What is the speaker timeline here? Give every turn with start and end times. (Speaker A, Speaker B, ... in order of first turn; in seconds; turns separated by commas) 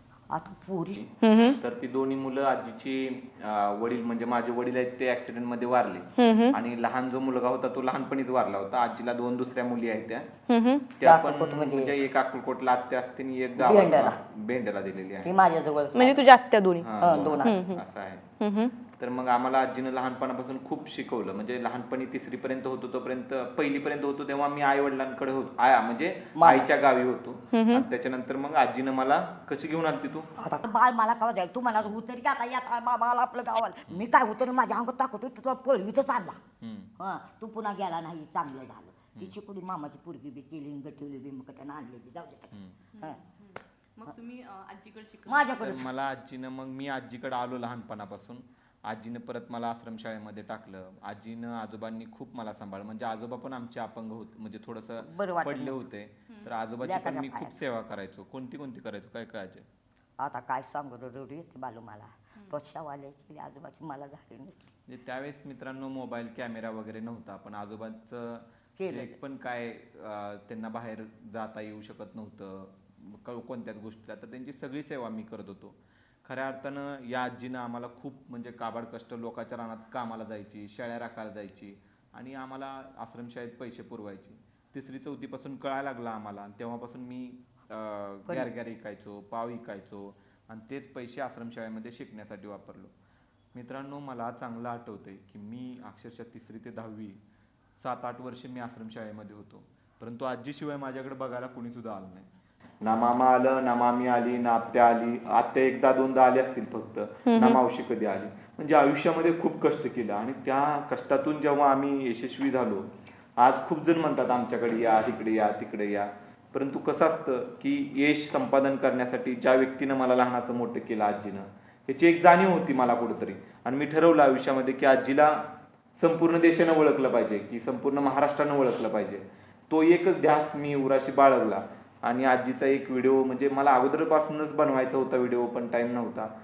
Speaker A: 0.3-1.0, Speaker B: 1.0-10.3, Speaker C: 1.2-1.6, Speaker C: 6.2-6.6, Speaker C: 10.5-10.9, Speaker B: 11.0-15.3, Speaker A: 11.0-11.9, Speaker A: 13.6-14.2, Speaker A: 15.2-16.2, Speaker C: 15.9-17.8, Speaker B: 16.8-18.2, Speaker A: 17.0-17.6, Speaker C: 18.4-18.7, Speaker B: 19.0-30.3, Speaker A: 26.4-26.7, Speaker C: 27.5-27.8, Speaker A: 30.4-36.4, Speaker B: 36.6-36.9, Speaker A: 37.0-43.2, Speaker B: 42.5-42.8, Speaker C: 44.0-45.5, Speaker A: 45.2-45.9, Speaker B: 45.6-59.7, Speaker A: 55.0-55.8, Speaker A: 56.8-57.5, Speaker A: 60.2-64.6, Speaker B: 64.9-92.9, Speaker A: 68.8-69.2, Speaker B: 93.5-97.2, Speaker B: 97.8-102.3, Speaker B: 102.8-112.9, Speaker C: 107.3-107.6, Speaker B: 113.4-125.4, Speaker B: 126.0-136.3